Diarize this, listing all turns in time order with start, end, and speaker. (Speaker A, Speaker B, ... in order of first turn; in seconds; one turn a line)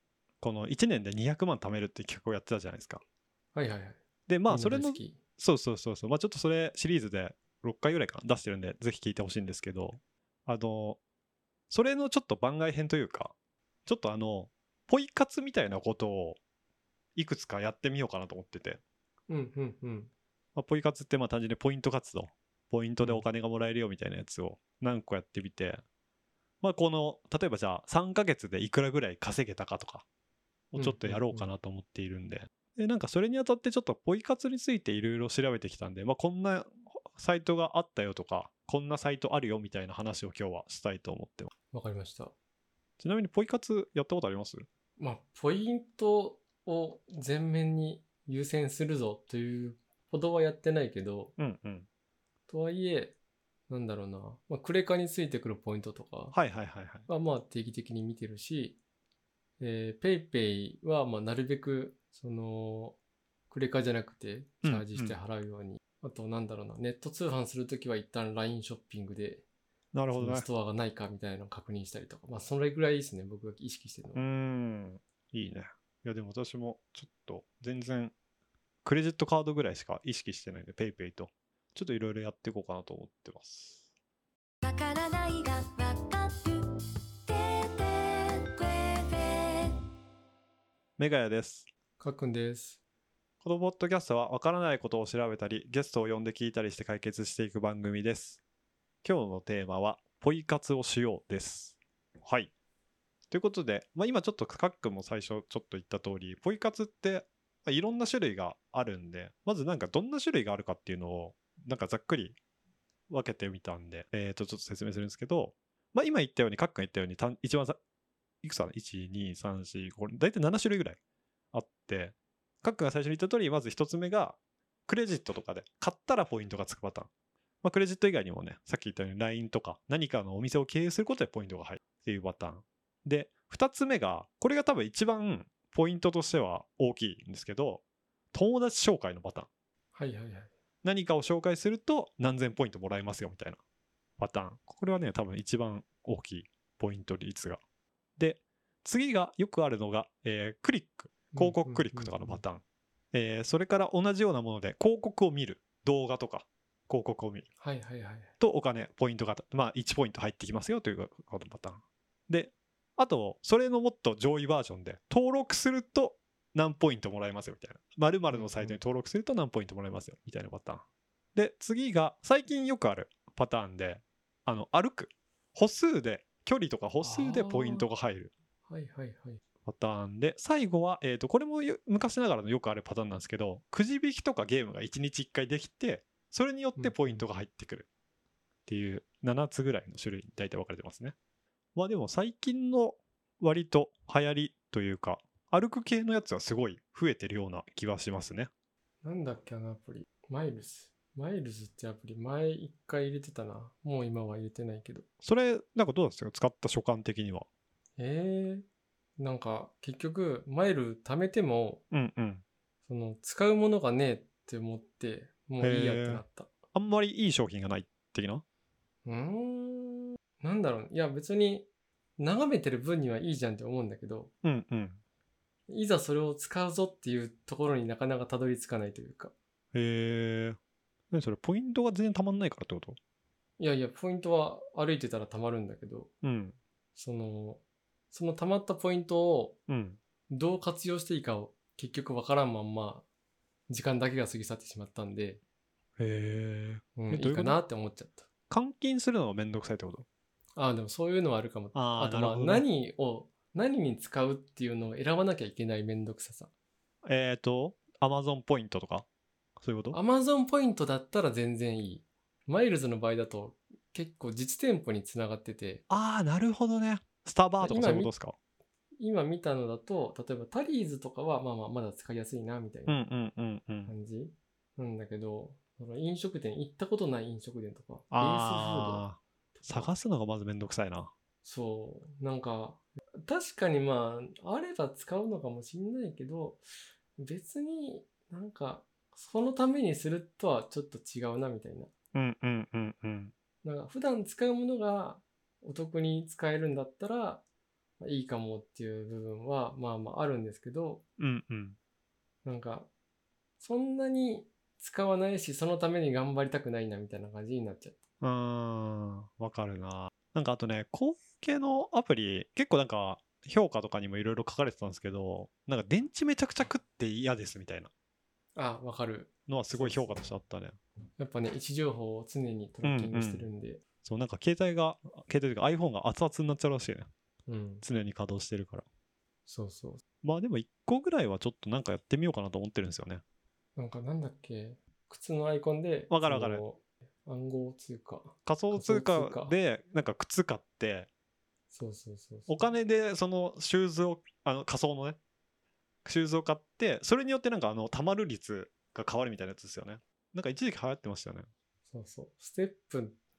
Speaker A: 0.4-3.0
Speaker B: 3.5-5.2
Speaker A: 4.3-11.0
Speaker A: 11.7-13.3
Speaker A: 13.8-16.4
Speaker A: 17.1-18.8
Speaker B: 19.3-20.1
Speaker A: 20.5-25.8
Speaker A: 26.6-30.0
Speaker A: 30.7-41.5
Speaker B: 30.8-31.5
Speaker B: 41.7-42.3
Speaker A: 43.0-44.6
Speaker B: 45.0-51.3
Speaker A: 51.4-51.9
Speaker B: 52.5-53.1
Speaker B: 53.7-56.4
Speaker A: 56.3-57.1
Speaker B: 57.1-58.8
Speaker B: 59.6-63.0
Speaker B: 63.5-69.4
Speaker A: 64.6-65.2
Speaker A: 69.9-70.5
Speaker B: 70.1-74.2
Speaker A: 74.1-78.1
Speaker A: 78.8-83.8
Speaker C: 84.6-89.8
Speaker A: 91.0-91.7
Speaker B: 92.0-92.8
Speaker A: 93.4-98.4
Speaker A: 99.0-102.5
Speaker A: 103.3-112.4
Speaker A: 113.1-117.8
Speaker A: 118.4-121.0
Speaker A: 121.5-124.4
Speaker A: 124.9-127.1
Speaker A: 127.6-137.8
Speaker A: 138.3-139.5
Speaker B: 139.9-140.5
Speaker A: 140.8-143.6
Speaker A: 144.2-147.6
Speaker A: 148.2-152.6
Speaker B: 151.3-152.4
Speaker A: 153.1-157.5
Speaker B: 157.6-158.3
Speaker A: 158.4-178.3
Speaker B: 168.3-168.8
Speaker B: 177.0-177.8
Speaker B: 178.7-179.4
Speaker A: 179.6-187.8
Speaker B: 186.8-187.2
Speaker A: 188.7-191.1
Speaker A: 191.8-198.5
Speaker B: 199.0-205.0
Speaker A: 205.2-207.4
Speaker B: 208.0-208.6
Speaker B: 209.2-211.8
Speaker A: 211.9-212.4
Speaker B: 212.9-216.5
Speaker A: 215.6-216.2
Speaker A: 216.7-218.4
Speaker B: 219.0-224.3
Speaker A: 224.4-225.0
Speaker B: 225.7-229.3
Speaker A: 229.7-230.6
Speaker A: 231.1-233.0
Speaker B: 233.6-236.1
Speaker A: 236.2-236.6
Speaker B: 236.9-239.6
Speaker A: 239.7-240.0
Speaker B: 240.3-243.0
Speaker B: 243.7-245.4
Speaker A: 246.0-247.6
Speaker B: 246.9-248.2
Speaker A: 248.5-250.1
Speaker B: 250.5-256.5
Speaker A: 251.7-252.6
Speaker A: 257.0-259.1
Speaker A: 259.6-260.0
Speaker B: 259.9-265.8
Speaker A: 265.9-268.3
Speaker B: 267.6-268.1
Speaker B: 269.0-272.9
Speaker A: 272.9-273.9
Speaker B: 273.9-279.9
Speaker A: 278.1-281.1
Speaker B: 281.4-286.6
Speaker B: 287.2-291.9
Speaker A: 292.1-293.3
Speaker B: 293.6-297.4
Speaker B: 298.0-301.0
Speaker A: 301.2-301.8
Speaker B: 302.4-302.9
Speaker B: 303.6-308.0
Speaker A: 308.2-317.9
Speaker B: 318.5-320.3
Speaker A: 319.5-320.8
Speaker B: 321.2-323.8
Speaker A: 322.8-323.5
Speaker A: 324.0-327.1
Speaker B: 327.5-327.8
Speaker A: 327.8-328.8
Speaker B: 329.5-330.0
Speaker A: 330.2-333.2
Speaker B: 333.8-339.5
Speaker A: 336.1-336.6
Speaker A: 338.4-341.1
Speaker B: 341.7-342.7
Speaker A: 342.5-345.2
Speaker A: 346.0-351.5
Speaker B: 351.9-353.2